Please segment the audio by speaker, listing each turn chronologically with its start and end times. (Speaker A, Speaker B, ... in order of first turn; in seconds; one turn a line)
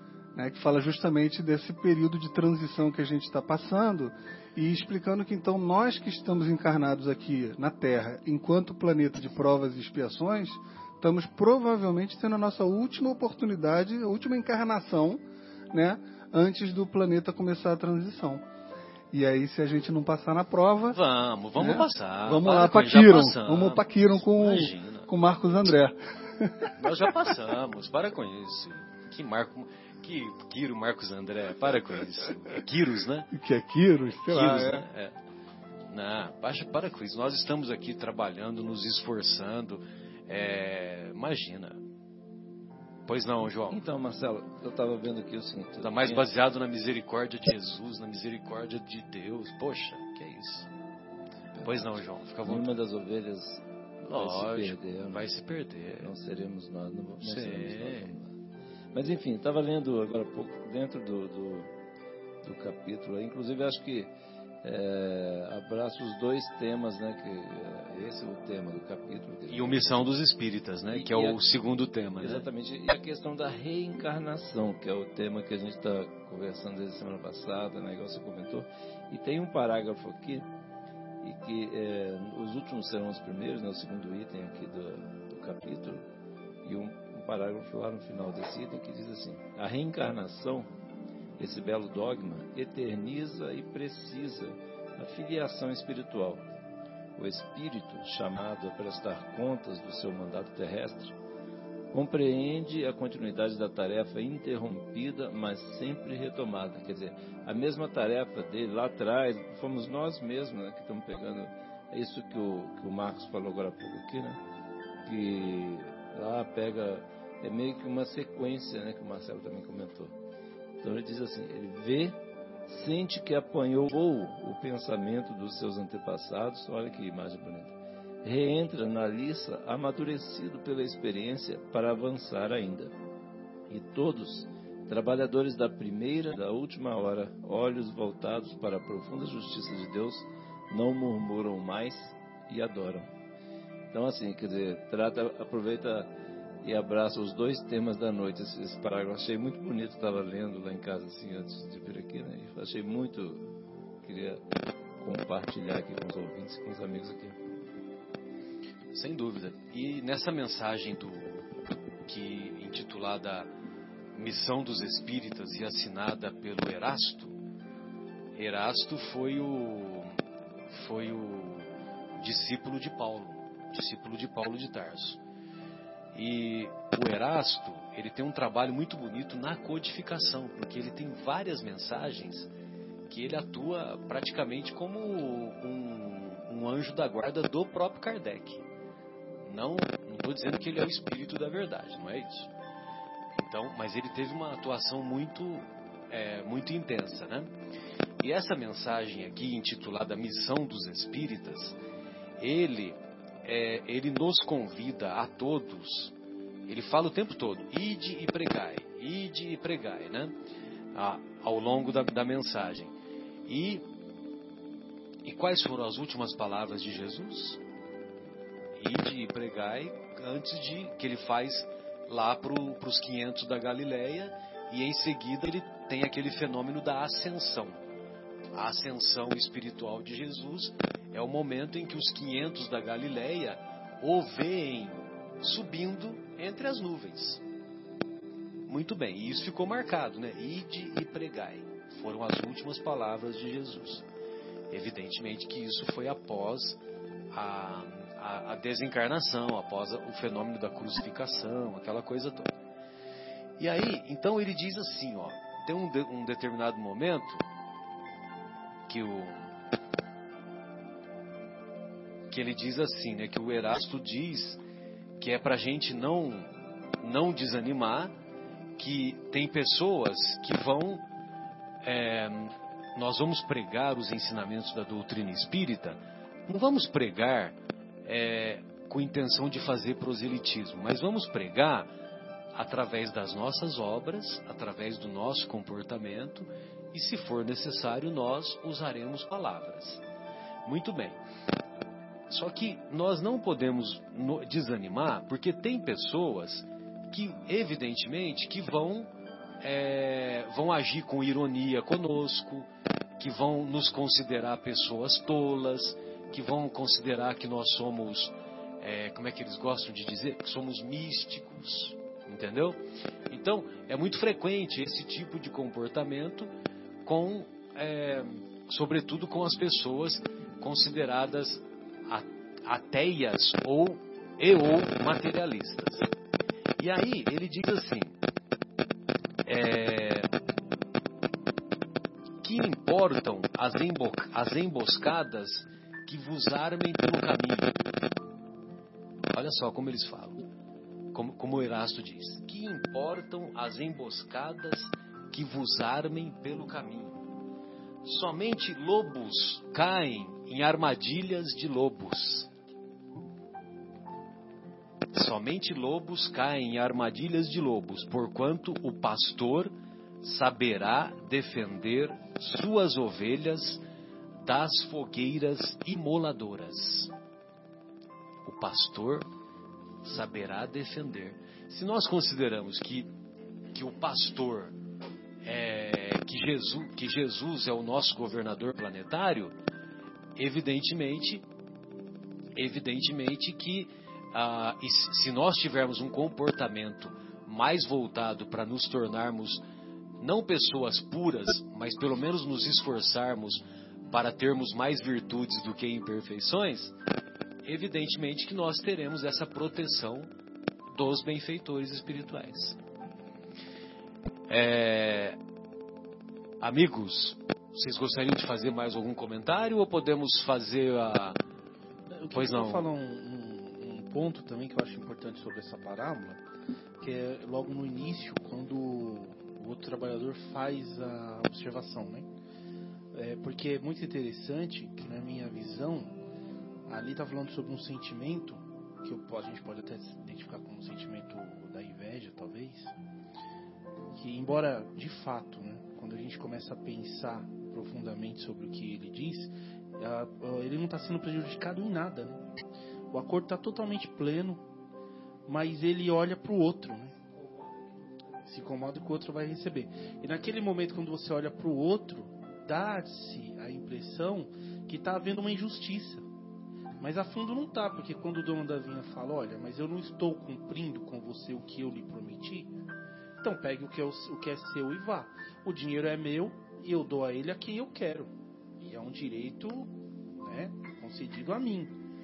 Speaker A: 0.3-18.4
Speaker A: 19.1-21.0
Speaker B: 20.9-25.1
Speaker A: 21.6-26.7
Speaker B: 26.8-33.3
Speaker A: 33.3-34.9
Speaker B: 34.3-35.1
Speaker B: 35.9-41.8
Speaker B: 43.1-43.8
Speaker C: 43.7-46.2
Speaker B: 45.8-50.7
Speaker C: 51.5-55.3
Speaker B: 51.6-52.7
Speaker B: 54.1-56.1
Speaker C: 56.0-58.3
Speaker B: 57.2-58.1
Speaker C: 58.9-61.7
Speaker C: 62.4-64.1
Speaker C: 64.6-70.1
Speaker B: 69.5-72.5
Speaker C: 70.9-71.4
Speaker C: 72.2-80.5
Speaker C: 81.2-86.0
Speaker C: 86.6-90.7
Speaker C: 91.4-96.5
Speaker C: 97.2-101.1
Speaker C: 101.9-114.4
Speaker C: 115.0-120.1
Speaker C: 120.8-132.9
Speaker C: 133.7-143.1
Speaker C: 143.9-146.1
Speaker C: 146.6-153.4
Speaker C: 154.0-154.4
Speaker C: 155.0-157.4
Speaker B: 158.9-161.5
Speaker B: 162.1-163.5
Speaker B: 164.1-167.3
Speaker B: 168.3-170.2
Speaker B: 170.7-175.2
Speaker B: 176.1-182.5
Speaker B: 183.1-188.7
Speaker B: 189.4-192.5
Speaker B: 193.3-197.5
Speaker B: 198.2-201.8
Speaker B: 202.4-206.1
Speaker B: 206.7-210.3
Speaker B: 210.9-212.9
Speaker B: 213.5-213.8
Speaker B: 215.2-217.6
Speaker B: 218.8-227.8
Speaker B: 228.5-237.4
Speaker B: 238.7-244.0
Speaker B: 244.7-246.8
Speaker B: 247.3-252.5
Speaker B: 253.6-257.4
Speaker B: 258.9-259.5
Speaker B: 262.3-264.6
Speaker B: 265.2-268.1
Speaker B: 268.8-271.0
Speaker B: 271.8-281.9
Speaker B: 282.5-290.0
Speaker B: 290.6-291.2
Speaker B: 292.3-299.1
Speaker B: 299.6-302.7
Speaker B: 303.2-316.5
Speaker B: 317.0-326.1
Speaker B: 326.8-328.1
Speaker B: 329.4-330.3
Speaker B: 332.4-337.7
Speaker B: 339.3-340.4
Speaker B: 341.1-347.2
Speaker B: 348.0-352.5
Speaker B: 355.1-363.8
Speaker B: 364.4-367.1
Speaker B: 368.4-369.2
Speaker B: 370.0-373.1
Speaker B: 373.7-374.7
Speaker B: 375.4-379.5
Speaker B: 380.4-381.4
Speaker B: 382.6-389.6
Speaker B: 390.2-396.9
Speaker B: 397.6-400.3
Speaker B: 400.9-402.8
Speaker B: 404.5-405.4
Speaker B: 406.6-411.4
Speaker D: 412.1-416.4
Speaker B: 412.3-412.9
Speaker D: 417.0-422.3
Speaker D: 423.1-426.2
Speaker D: 426.9-432.9
Speaker D: 434.1-442.4
Speaker D: 443.1-444.6
Speaker D: 445.4-447.2
Speaker D: 448.4-456.2
Speaker D: 457.0-462.7
Speaker D: 463.4-472.0